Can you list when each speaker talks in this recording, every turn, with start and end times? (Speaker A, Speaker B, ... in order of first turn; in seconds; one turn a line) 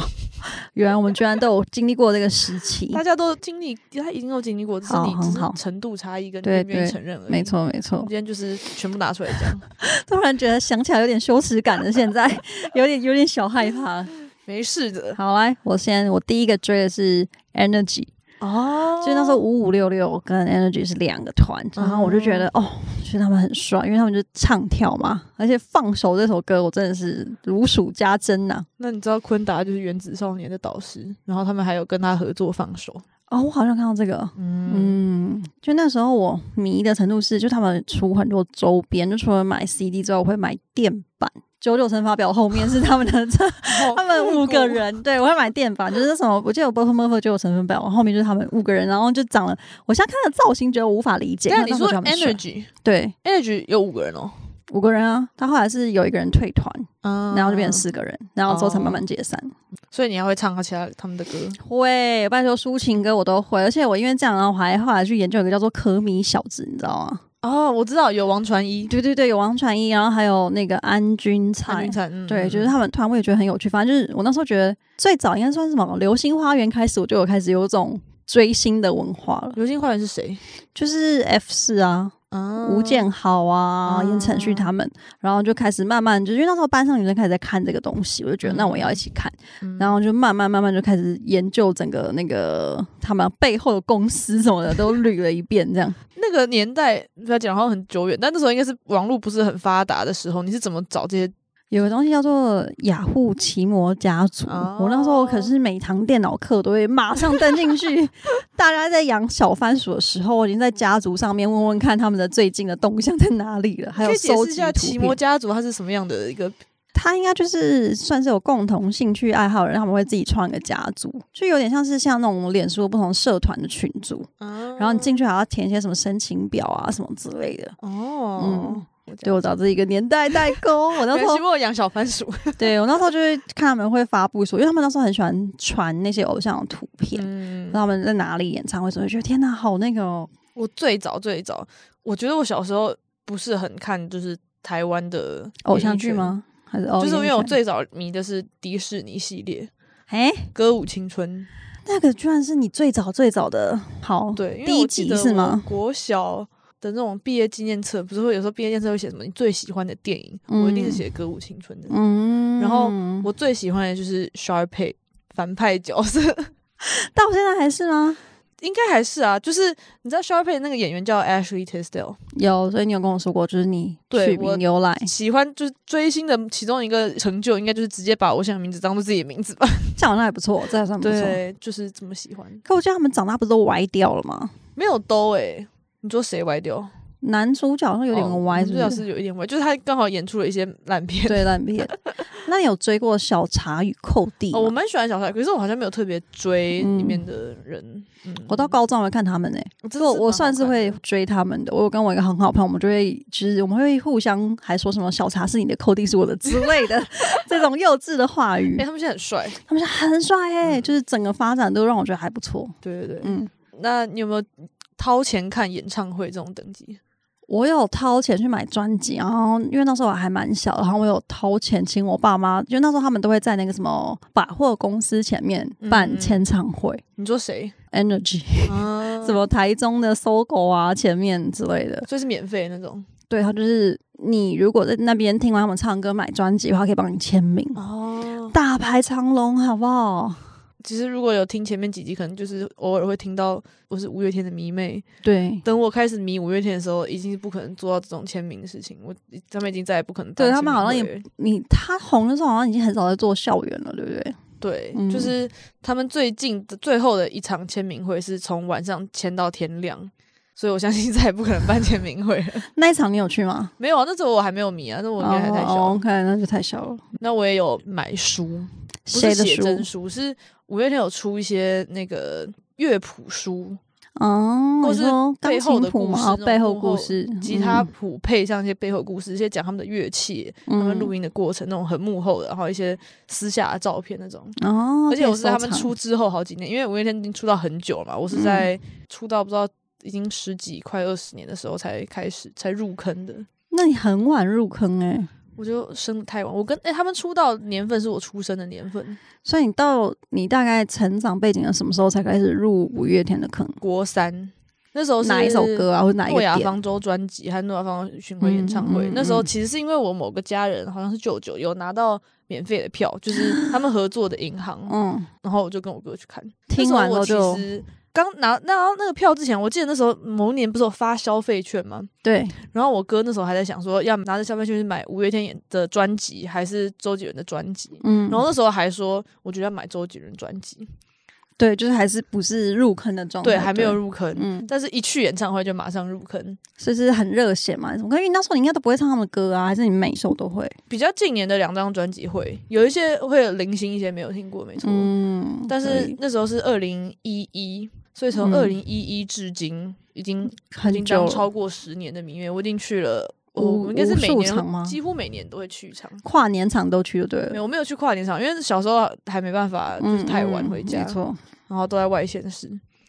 Speaker A: 0.6-3.0
Speaker B: 2.9-9.6
Speaker A: 4.8-5.6
Speaker A: 6.4-8.1
Speaker A: 9.8-14.1
Speaker B: 14.4-15.2
Speaker A: 15.2-18.1
Speaker B: 18.4-19.4
Speaker A: 19.0-28.7
Speaker B: 21.8-22.5
Speaker B: 28.8-33.0
Speaker A: 33.3-53.1
Speaker B: 34.4-35.0
Speaker B: 43.7-44.8
Speaker B: 51.5-52.7
Speaker B: 53.2-54.4
Speaker A: 54.7-59.5
Speaker B: 57.0-57.9
Speaker B: 58.5-59.0
Speaker B: 59.9-61.6
Speaker A: 61.6-67.2
Speaker B: 67.4-68.9
Speaker A: 68.9-79.6
Speaker B: 71.6-72.7
Speaker B: 79.5-80.4
Speaker A: 80.7-96.0
Speaker B: 82.3-83.1
Speaker B: 83.8-84.7
Speaker B: 88.4-89.0
Speaker B: 89.6-90.0
Speaker B: 96.2-101.3
Speaker A: 101.7-115.2
Speaker B: 104.5-105.5
Speaker B: 114.0-116.5
Speaker A: 116.9-127.7
Speaker B: 124.4-125.2
Speaker B: 127.8-129.6
Speaker A: 128.4-131.4
Speaker B: 130.6-132.7
Speaker A: 132.6-140.3
Speaker B: 137.1-137.8
Speaker B: 140.6-146.3
Speaker A: 145.6-147.5
Speaker B: 147.0-149.7
Speaker A: 150.1-150.5
Speaker B: 150.5-151.5
Speaker A: 151.8-155.6
Speaker B: 154.3-161.9
Speaker A: 160.5-161.0
Speaker A: 161.9-163.3
Speaker B: 162.6-166.5
Speaker A: 166.8-168.2
Speaker B: 168.6-172.2
Speaker A: 172.3-175.1
Speaker B: 174.1-180.0
Speaker A: 180.0-181.4
Speaker B: 181.0-182.6
Speaker A: 182.7-184.5
Speaker B: 184.8-186.9
Speaker A: 187.2-189.0
Speaker B: 188.1-192.3
Speaker A: 191.3-191.9
Speaker A: 192.4-194.7
Speaker B: 194.5-198.7
Speaker A: 196.8-197.2
Speaker A: 198.5-208.8
Speaker B: 199.8-201.0
Speaker B: 208.8-209.6
Speaker A: 209.7-213.5
Speaker B: 212.8-217.0
Speaker A: 217.5-227.0
Speaker B: 225.8-226.4
Speaker B: 227.2-227.7
Speaker A: 227.9-232.1
Speaker B: 228.7-229.4
Speaker B: 232.1-233.1
Speaker A: 233.3-237.8
Speaker B: 237.7-238.6
Speaker A: 238.5-240.4
Speaker B: 240.8-245.0
Speaker A: 245.2-245.6
Speaker B: 245.6-251.2
Speaker A: 250.4-254.4
Speaker B: 254.6-262.7
Speaker A: 254.9-255.3
Speaker A: 262.7-263.7
Speaker B: 263.8-266.0
Speaker A: 265.2-267.0
Speaker B: 267.2-273.8
Speaker A: 269.1-269.9
Speaker A: 274.2-277.9
Speaker B: 274.8-284.6
Speaker A: 280.7-281.1
Speaker A: 284.6-285.9
Speaker B: 285.1-293.5
Speaker A: 288.3-288.7
Speaker A: 293.7-295.3
Speaker B: 295.6-299.2
Speaker A: 299.4-303.8
Speaker B: 303.8-322.1
Speaker A: 305.2-306.7
Speaker A: 308.4-309.5
Speaker A: 314.9-315.3
Speaker A: 316.7-317.6
Speaker A: 322.2-322.6
Speaker B: 322.6-330.9
Speaker A: 328.0-328.4
Speaker A: 331.6-334.7
Speaker B: 333.4-336.6
Speaker A: 336.8-340.8
Speaker B: 340.9-345.1
Speaker A: 344.8-346.1
Speaker B: 345.7-356.2
Speaker A: 348.4-348.7
Speaker A: 350.6-351.4
Speaker A: 353.6-354.9
Speaker A: 356.2-357.6
Speaker B: 357.5-361.2
Speaker A: 360.0-361.4
Speaker B: 361.7-362.8